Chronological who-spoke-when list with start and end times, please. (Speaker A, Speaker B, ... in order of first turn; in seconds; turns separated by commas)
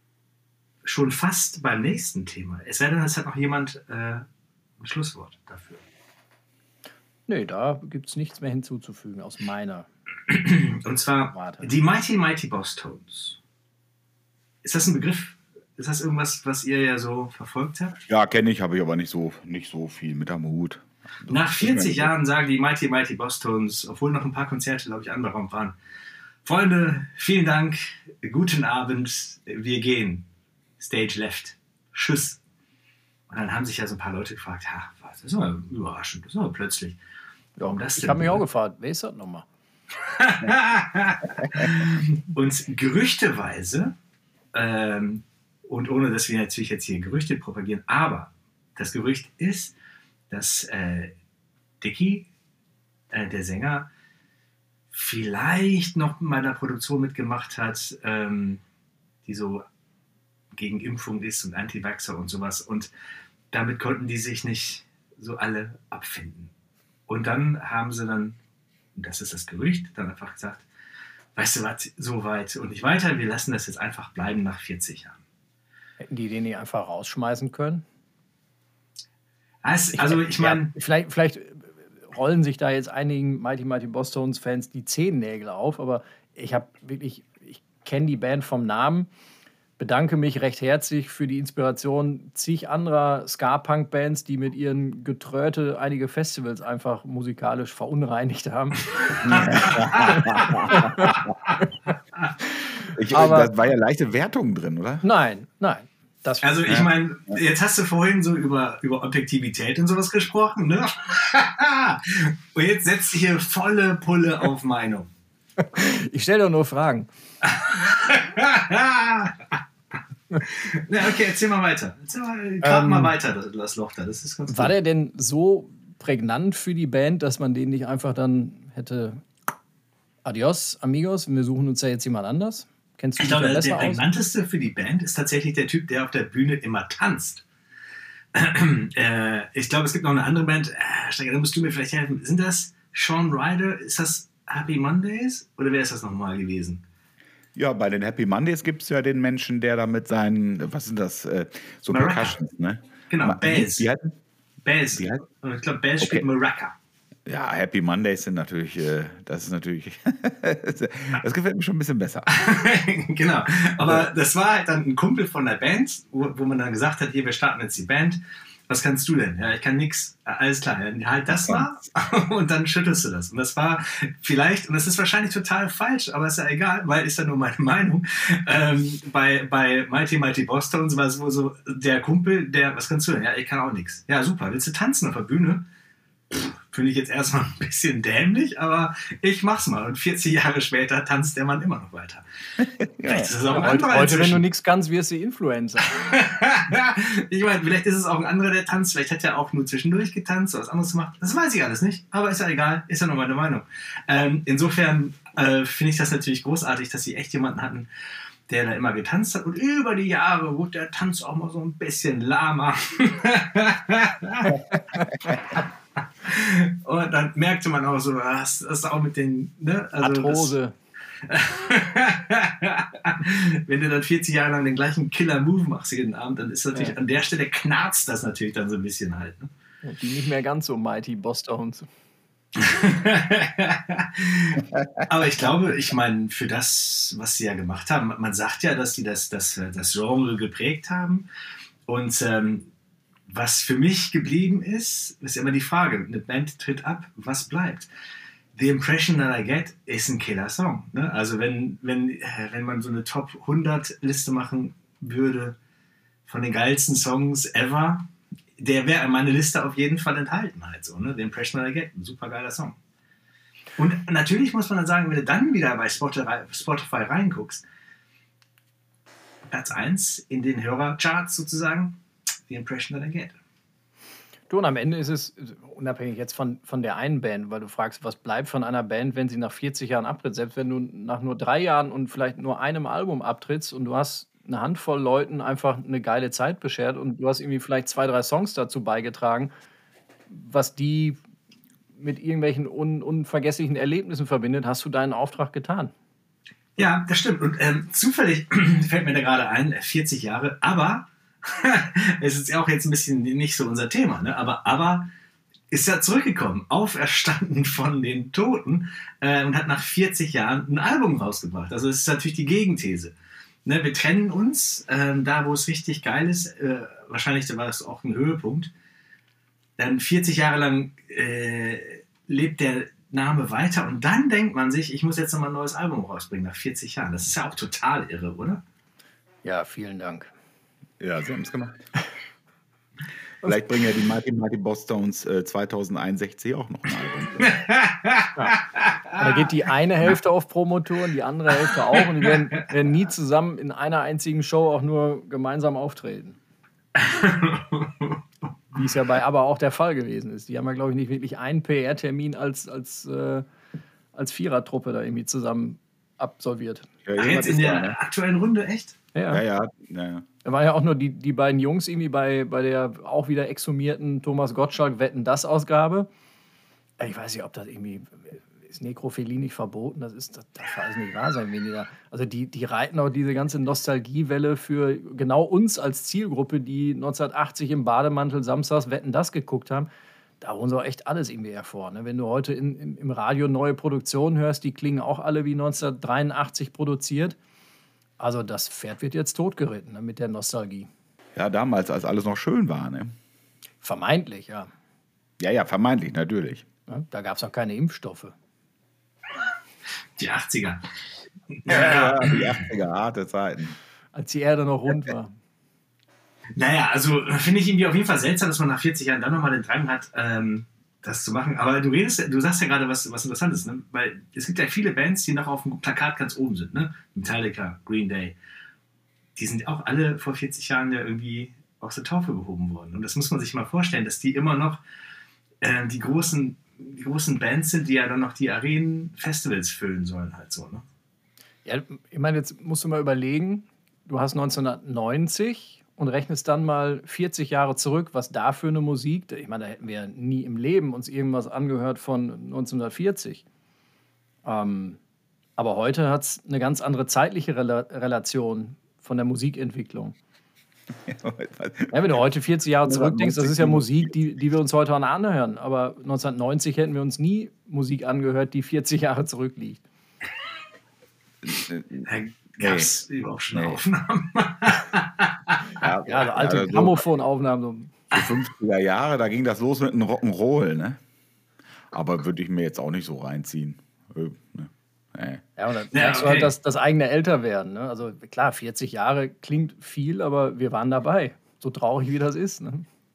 Speaker A: 0.8-4.2, Speaker A: 4.8-5.8, Speaker B: 7.3-9.9, Speaker A: 10.3-13.4, Speaker B: 11.3-11.7, Speaker A: 14.6-17.9, Speaker C: 18.1-22.1, Speaker A: 21.3-25.8, Speaker A: 26.4-30.2, Speaker A: 30.8-32.4, Speaker A: 33.3-37.0, Speaker B: 37.6-39.5, Speaker A: 37.6-38.4, Speaker A: 40.1-43.9, Speaker A: 44.5-49.7, Speaker A: 50.3-51.1, Speaker A: 51.8-52.3, Speaker A: 53.1-53.9, Speaker A: 54.9-58.6, Speaker A: 59.2-59.6, Speaker A: 60.5-62.9, Speaker A: 63.5-66.5, Speaker A: 67.1-68.4, Speaker A: 69.0-70.7, Speaker A: 71.3-75.2, Speaker B: 76.0-77.8, Speaker A: 79.6-80.7, Speaker B: 79.9-89.1, Speaker B: 89.8-101.2, Speaker A: 99.0-100.4, Speaker C: 99.2-101.3, Speaker C: 102.9-105.0, Speaker B: 103.1-103.5, Speaker B: 105.0-106.5, Speaker A: 106.4-115.1, Speaker B: 115.6-117.1, Speaker A: 117.4-119.5, Speaker A: 120.4-124.7, Speaker B: 122.6-123.1, Speaker B: 124.5-129.2, Speaker B: 130.2-134.0, Speaker A: 133.2-137.4, Speaker A: 138.3-146.8, Speaker C: 147.5-154.1, Speaker A: 151.9-152.3, Speaker A: 153.1-153.9, Speaker A: 154.6-156.7, Speaker C: 156.0-156.2, Speaker C: 157.3-162.3, Speaker A: 162.3-185.6, Speaker C: 163.8-164.1, Speaker C: 171.3-171.7, Speaker A: 186.3-192.2, Speaker C: 192.6-193.3, Speaker A: 193.0-194.4, Speaker B: 193.5-196.2, Speaker A: 195.9-207.9, Speaker A: 208.5-214.6, Speaker A: 216.2-220.5, Speaker B: 220.0-220.7, Speaker A: 221.2-229.5, Speaker B: 229.8-231.9, Speaker A: 232.6-241.3, Speaker A: 241.9-242.7, Speaker A: 243.3-247.9, Speaker A: 248.5-255.6, Speaker A: 256.2-262.8, Speaker A: 263.8-267.6, Speaker A: 269.5-273.4, Speaker B: 274.5-289.5, Speaker B: 290.3-291.2, Speaker B: 291.9-295.9, Speaker A: 296.8-305.1, Speaker A: 305.7-313.1, Speaker A: 313.6-318.7, Speaker A: 319.8-328.6, Speaker B: 329.4-330.3, Speaker C: 331.0-331.8, Speaker C: 333.4-337.5, Speaker B: 333.4-333.9, Speaker A: 337.4-339.4, Speaker B: 339.1-346.4, Speaker A: 341.7-342.3, Speaker A: 346.9-348.2, Speaker B: 348.7-353.4, Speaker B: 354.1-356.9, Speaker C: 357.1-357.9, Speaker A: 357.2-359.0, Speaker B: 359.1-359.4, Speaker C: 359.3-360.2, Speaker B: 360.4-366.1, Speaker B: 367.0-379.9, Speaker B: 380.4-387.4, Speaker B: 388.2-390.9, Speaker C: 391.4-393.1, Speaker B: 393.8-394.7, Speaker C: 395.4-396.6, Speaker B: 396.9-398.3, Speaker A: 400.2-400.8, Speaker A: 401.5-402.6, Speaker C: 401.7-403.8, Speaker B: 404.1-405.3, Speaker A: 406.6-418.3, Speaker A: 419.4-424.8, Speaker A: 425.6-430.8, Speaker B: 431.6-443.4, Speaker B: 444.4-445.0, Speaker B: 445.6-450.1, Speaker C: 451.0-452.2, Speaker B: 451.9-459.8, Speaker C: 452.8-454.1, Speaker C: 461.4-462.1, Speaker A: 462.1-465.6, Speaker C: 462.6-462.9, Speaker C: 463.5-463.8, Speaker C: 465.8-467.0, Speaker B: 466.0-468.0, Speaker C: 468.1-471.0, Speaker C: 471.9-475.4, Speaker B: 475.6-482.9, Speaker A: 475.9-476.5